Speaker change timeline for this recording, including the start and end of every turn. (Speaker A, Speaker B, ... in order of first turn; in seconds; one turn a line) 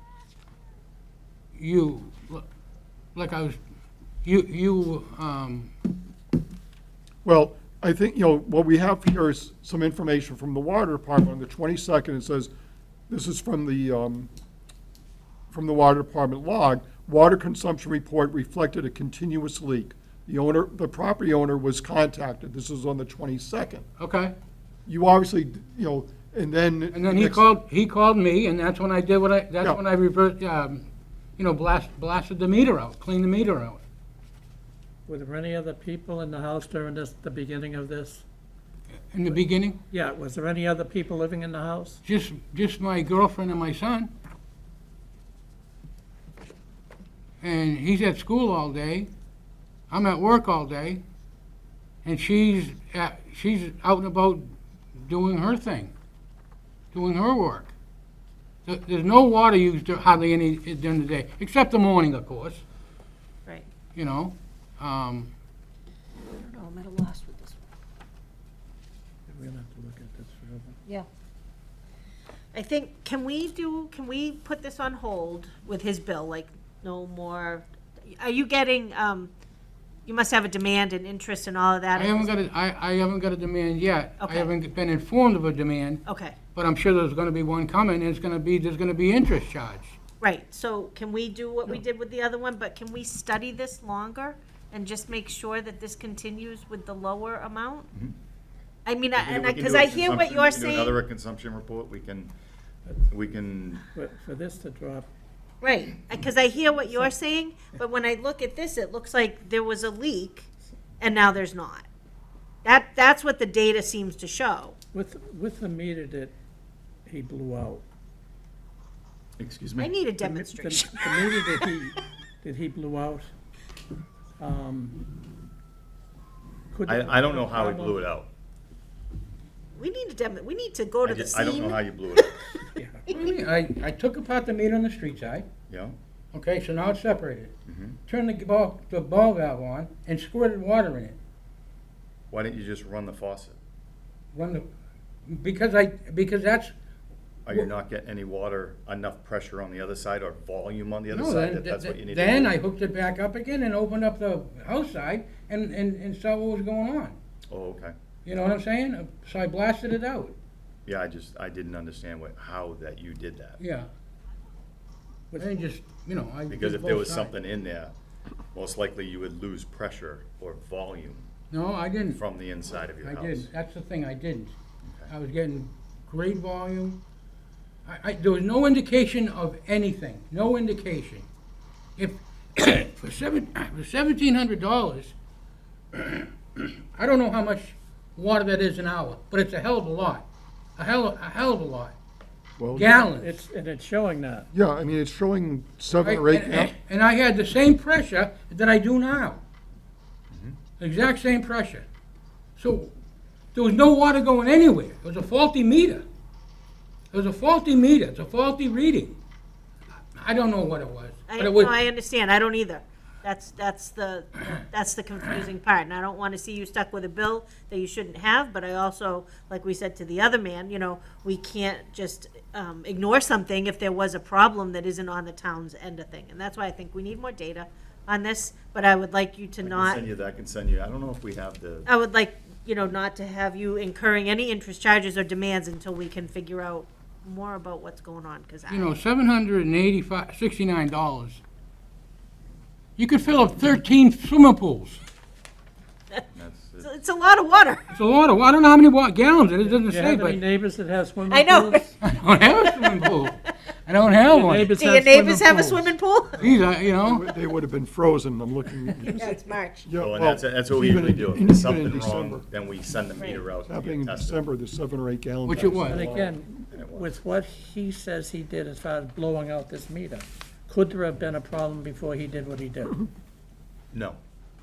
Speaker A: 1.5-2.5
Speaker A: 3.1-3.6
Speaker A: 4.2-5.7
Speaker B: 7.2-12.5
Speaker B: 13.1-14.3
Speaker B: 15.5-23.8
Speaker A: 24.0-24.3
Speaker B: 24.9-27.5
Speaker A: 26.9-33.8
Speaker C: 35.1-38.2
Speaker A: 39.1-39.8
Speaker C: 39.9-42.0
Speaker A: 42.0-44.1
Speaker A: 47.4-49.1
Speaker A: 49.9-51.0
Speaker A: 52.0-55.9
Speaker A: 56.9-57.7
Speaker A: 58.6-62.6
Speaker A: 63.9-65.3
Speaker D: 66.7-67.2
Speaker C: 69.3-70.8
Speaker D: 72.5-77.7
Speaker D: 78.2-79.3
Speaker D: 80.0-82.3
Speaker A: 81.9-86.0
Speaker D: 84.2-84.5
Speaker D: 86.0-86.3
Speaker A: 86.5-89.9
Speaker D: 90.2-97.9
Speaker D: 98.8-101.0
Speaker E: 99.1-102.3
Speaker E: 102.9-103.8
Speaker C: 103.9-105.1
Speaker D: 105.6-110.5
Speaker D: 111.0-111.8
Speaker D: 112.6-114.8
Speaker C: 114.9-116.3
Speaker C: 117.0-117.8
Speaker E: 119.4-119.9
Speaker D: 119.8-121.7
Speaker C: 120.2-123.3
Speaker C: 124.4-125.0
Speaker C: 126.7-128.0
Speaker E: 126.8-128.3
Speaker D: 129.8-132.4
Speaker E: 131.0-132.4
Speaker C: 132.8-133.1
Speaker A: 133.1-135.5
Speaker E: 135.7-135.9
Speaker A: 136.3-137.5
Speaker E: 137.7-138.0
Speaker A: 138.1-141.2
Speaker E: 142.3-143.6
Speaker A: 144.3-144.7
Speaker A: 145.3-146.7
Speaker E: 147.4-152.6
Speaker A: 151.1-157.2
Speaker E: 157.5-157.9
Speaker A: 158.2-160.3
Speaker E: 160.8-163.6
Speaker A: 163.6-163.9
Speaker A: 165.4-167.3
Speaker E: 166.5-167.9
Speaker E: 168.5-171.3
Speaker A: 171.5-172.2
Speaker E: 172.1-173.5
Speaker A: 173.0-174.5
Speaker E: 174.8-175.1
Speaker A: 175.1-177.0
Speaker A: 177.8-181.3
Speaker A: 182.0-185.1
Speaker A: 185.9-190.2
Speaker A: 190.8-191.9
Speaker B: 192.6-192.9
Speaker A: 192.7-193.4
Speaker C: 193.0-194.5
Speaker B: 194.5-196.7
Speaker A: 196.0-199.4
Speaker E: 200.3-200.6
Speaker A: 200.8-201.8
Speaker A: 202.6-202.9
Speaker A: 203.5-206.0
Speaker A: 207.1-209.2
Speaker A: 210.1-211.7
Speaker D: 211.3-230.0
Speaker E: 229.6-231.9
Speaker D: 231.8-239.0
Speaker A: 238.7-241.4
Speaker A: 243.0-245.0
Speaker E: 246.3-246.9
Speaker D: 246.8-247.8
Speaker A: 247.9-250.4
Speaker C: 249.6-251.9
Speaker D: 251.2-251.9
Speaker A: 252.0-254.8
Speaker D: 252.8-253.1
Speaker C: 254.3-255.9
Speaker D: 254.7-256.4
Speaker A: 256.4-257.3
Speaker B: 256.4-259.3
Speaker D: 259.1-259.9
Speaker B: 259.8-262.4
Speaker E: 259.9-264.4
Speaker D: 263.1-263.4
Speaker B: 263.6-266.4
Speaker A: 265.4-266.0
Speaker C: 265.9-273.1
Speaker E: 266.7-267.1
Speaker E: 273.9-274.2